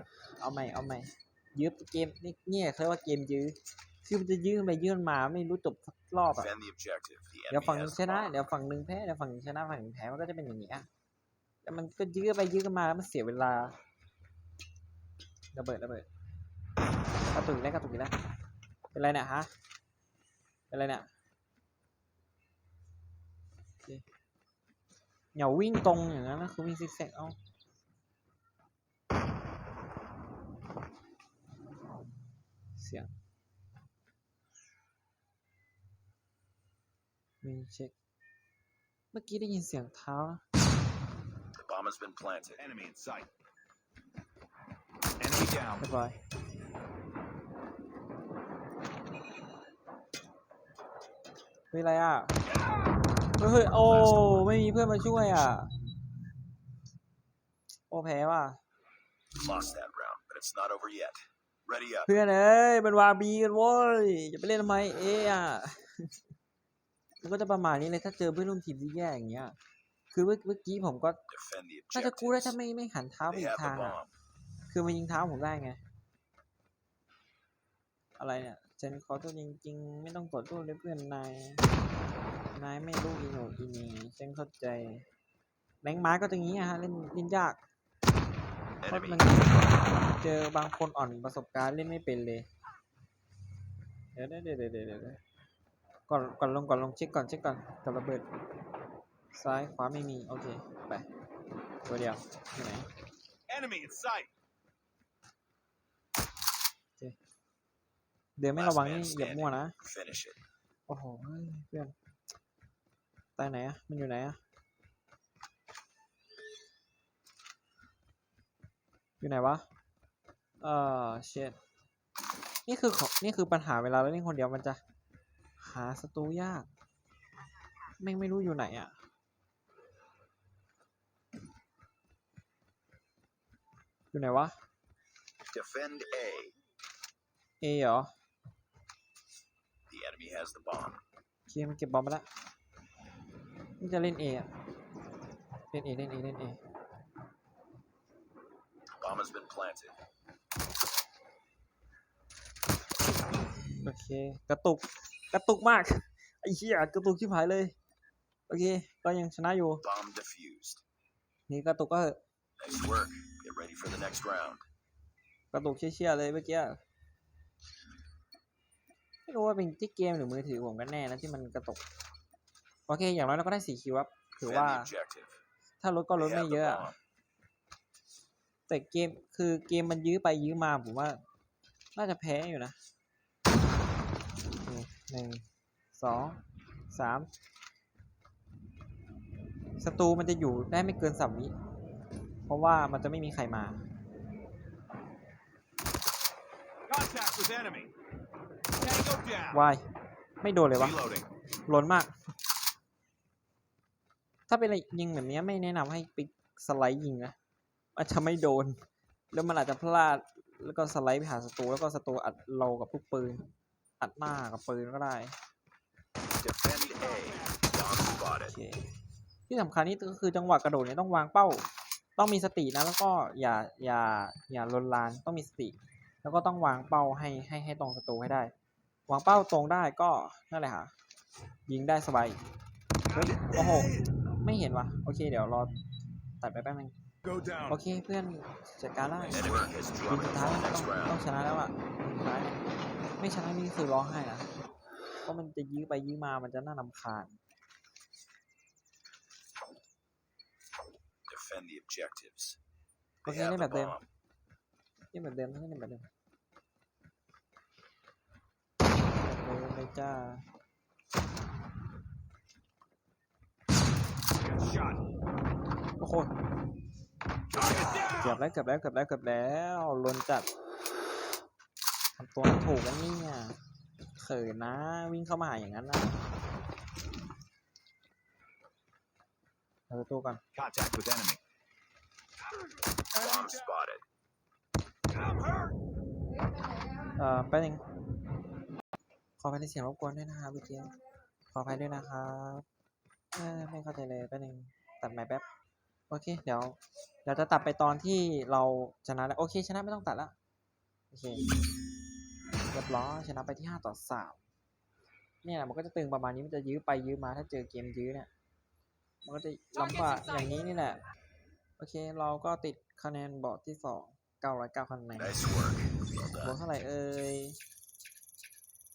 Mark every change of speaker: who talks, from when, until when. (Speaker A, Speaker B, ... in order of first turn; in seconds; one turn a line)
Speaker A: 0.4-6.5
Speaker B: 6.3-8.4
Speaker A: 7.5-10.9
Speaker A: 11.6-13.7
Speaker A: 15.5-16.1
Speaker A: 17.3-18.1
Speaker A: 18.9-19.5
Speaker A: 20.7-21.1
Speaker A: 25.3-27.4
Speaker A: 32.8-33.1
Speaker A: 37.4-37.9
Speaker A: 39.1-40.4
Speaker B: 41.5-42.6
Speaker C: 42.6-43.3
Speaker C: 45.2-45.8
Speaker A: 45.8-46.1
Speaker A: 51.7-52.3
Speaker A: 53.4-55.7
Speaker B: 53.8-54.5
Speaker A: 57.9-58.6
Speaker B: 59.3-62.1
Speaker A: 62.1-66.2
Speaker A: 67.2-69.5
Speaker A: 70.1-71.2
Speaker B: 71.3-72.5
Speaker A: 71.9-74.0
Speaker B: 73.3-74.1
Speaker A: 74.7-75.8
Speaker A: 78.2-81.6
Speaker A: 82.5-85.0
Speaker A: 85.8-87.6
Speaker B: 88.8-89.9
Speaker A: 88.9-92.5
Speaker A: 94.1-95.2
Speaker A: 96.1-98.2
Speaker A: 99.3-101.0
Speaker A: 101.8-102.9
Speaker C: 103.5-104.3
Speaker A: 108.4-109.7
Speaker B: 108.5-110.4
Speaker A: 110.9-111.9
Speaker A: 113.4-114.4
Speaker A: 119.2-119.7
Speaker A: 120.6-121.6
Speaker A: 122.7-124.8
Speaker A: 125.6-126.7
Speaker A: 128.0-128.9
Speaker A: 134.1-134.5
Speaker B: 135.5-136.5
Speaker A: 137.6-138.1
Speaker B: 139.9-141.0
Speaker A: 141.5-142.3
Speaker A: 143.8-144.5
Speaker A: 145.7-146.6
Speaker B: 149.0-149.9
Speaker A: 153.8-157.8
Speaker A: 158.5-159.8
Speaker B: 159.8-160.8
Speaker A: 161.5-162.2
Speaker B: 162.6-164.6
Speaker A: 165.5-166.8
Speaker A: 169.2-171.8
Speaker A: 172.9-174.9
Speaker B: 174.4-175.4
Speaker A: 175.8-176.9
Speaker B: 176.2-177.0
Speaker A: 178.7-181.2
Speaker A: 181.9-182.8
Speaker A: 184.6-185.4
Speaker A: 185.9-187.3
Speaker A: 189.8-191.5
Speaker A: 192.5-193.8
Speaker C: 196.9-197.9
Speaker C: 198.7-199.6
Speaker A: 199.5-199.8
Speaker A: 200.4-201.0
Speaker C: 200.7-201.3
Speaker A: 201.7-202.1
Speaker A: 204.5-207.3
Speaker A: 207.9-208.8
Speaker A: 209.3-213.4
Speaker A: 214.0-215.3
Speaker B: 216.4-218.5
Speaker C: 216.7-217.6
Speaker A: 218.4-218.8
Speaker A: 219.5-228.5
Speaker A: 229.1-230.9
Speaker A: 231.7-232.4
Speaker A: 233.1-235.7
Speaker C: 233.1-233.6
Speaker A: 236.4-236.9
Speaker C: 237.2-237.8
Speaker A: 237.7-242.6
Speaker B: 239.2-241.2
Speaker A: 243.2-244.5
Speaker A: 245.2-247.4
Speaker B: 251.3-252.6
Speaker B: 253.2-254.1
Speaker A: 253.2-254.0
Speaker A: 255.1-256.1
Speaker A: 259.1-260.4
Speaker C: 264.4-265.0
Speaker A: 266.0-266.3
Speaker C: 267.5-268.4
Speaker A: 268.1-270.5
Speaker A: 272.1-273.6
Speaker A: 274.1-276.2
Speaker A: 279.9-280.4
Speaker C: 280.5-281.4
Speaker C: 283.1-283.6
Speaker B: 283.1-284.0
Speaker C: 285.1-285.7
Speaker A: 287.1-287.8
Speaker A: 289.4-290.9
Speaker A: 291.5-292.6
Speaker A: 293.3-295.4
Speaker A: 296.1-300.3
Speaker A: 301.1-301.4
Speaker A: 302.7-304.4
Speaker A: 305.4-308.3
Speaker A: 309.2-311.0
Speaker A: 311.8-315.4
Speaker B: 315.2-316.5
Speaker A: 316.4-317.6